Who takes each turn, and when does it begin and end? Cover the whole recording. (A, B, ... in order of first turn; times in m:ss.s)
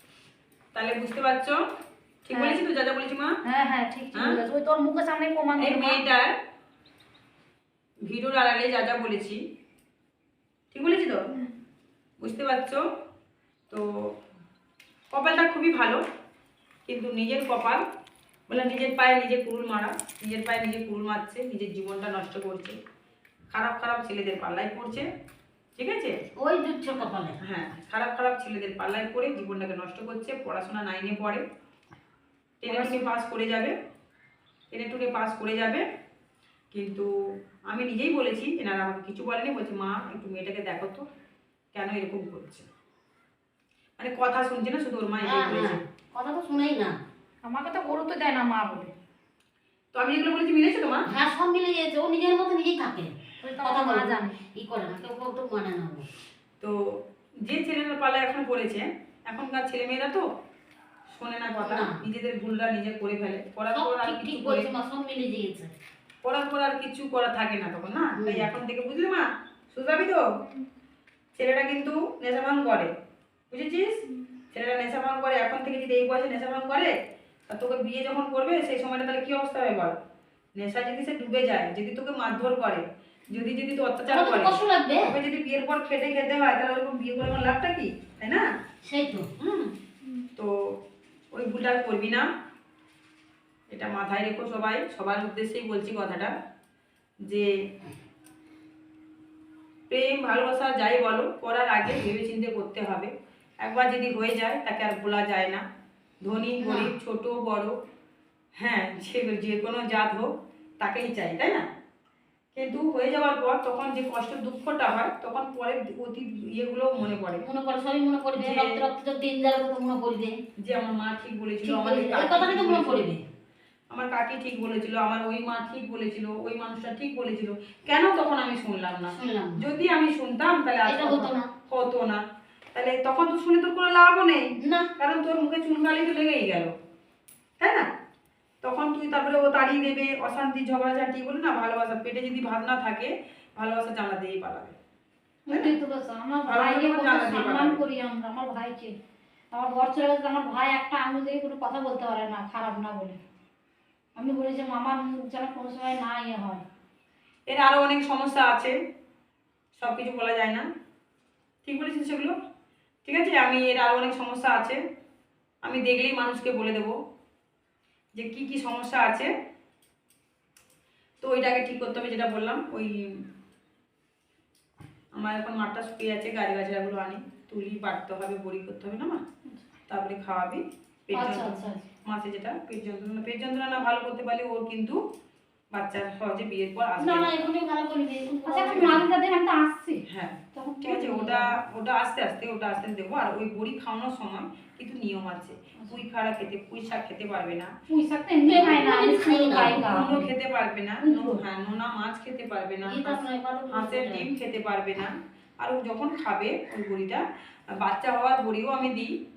0:00.7-0:01.6 A
0:02.2-0:03.4 A
0:02.3-0:02.6 B
0:03.5-0:06.0 B
0:04.1-0:04.4 A
0:05.6-0:06.3 A
0:08.1-0:09.4 A
0:10.7-0:11.3 A
0:12.2-0:12.8 A
0:15.1-0:16.0 A
0:16.9-0:17.8 A
0:18.5-0:22.8 A
0:23.5-0:25.1 A
0:25.8-0:26.2 A
0:26.4-0:27.4 C
0:27.4-0:31.4 A
0:32.6-0:33.7 A
0:32.7-0:33.1 B
0:34.7-0:35.8 A
0:36.7-0:37.1 A
0:37.7-0:41.0 A
0:41.7-0:42.7 A
0:44.0-0:45.8 A
0:45.2-0:47.0 C
0:47.4-0:48.9 B
0:49.9-0:51.0 A
0:51.1-0:56.1 C
0:53.4-0:54.4 B
0:56.6-1:00.3 A
1:01.1-1:04.7 A
1:01.6-1:01.9 C
1:03.7-1:05.7 C
1:06.2-1:10.2 A
1:08.2-1:08.5 C
1:11.4-1:12.9 A
1:13.5-1:16.9 A
1:17.5-1:20.0 A
1:20.6-1:28.4 A
1:24.1-1:25.1 C
1:28.8-1:29.3 C
1:29.4-1:29.7 A
1:30.4-1:30.8 A
1:31.3-1:32.3 A
1:33.7-1:36.3 A
1:39.9-1:43.1 A
1:43.6-1:45.6 A
1:46.2-1:47.8 A
1:46.6-1:46.9 C
1:48.6-1:50.3 A
1:50.8-1:51.7 A
1:52.5-1:57.5 A
1:57.4-2:00.4 C
1:58.4-1:58.7 A
2:00.6-2:03.1 A
2:01.6-2:03.2 C
2:03.9-2:12.2 A
2:09.1-2:09.7 C
2:10.9-2:11.5 C
2:12.7-2:14.4 A
2:14.6-2:14.9 C
2:15.0-2:16.7 A
2:17.6-2:17.8 A
2:18.6-2:24.8 A
2:25.5-2:28.9 B
2:26.5-2:27.8 A
2:29.5-2:33.2 B
2:34.2-2:36.6 B
2:37.5-2:38.8 A
2:39.8-2:40.7 A
2:41.6-2:42.3 A
2:43.0-2:44.8 A
2:45.6-2:47.0 A
2:48.2-2:49.3 A
2:51.2-2:53.2 A
2:55.2-2:59.2 A
2:59.9-3:05.0 A
3:01.1-3:01.8 B
3:05.7-3:07.5 A
3:07.0-3:09.0 C
3:08.5-3:10.0 B
3:08.7-3:09.0 A
3:10.1-3:17.7 A
3:10.6-3:11.6 B
3:17.9-3:20.3 B
3:18.4-3:19.8 C
3:18.5-3:18.8 A
3:19.6-3:27.2 A
3:21.0-3:21.4 B
3:22.8-3:24.3 C
3:27.7-3:29.1 A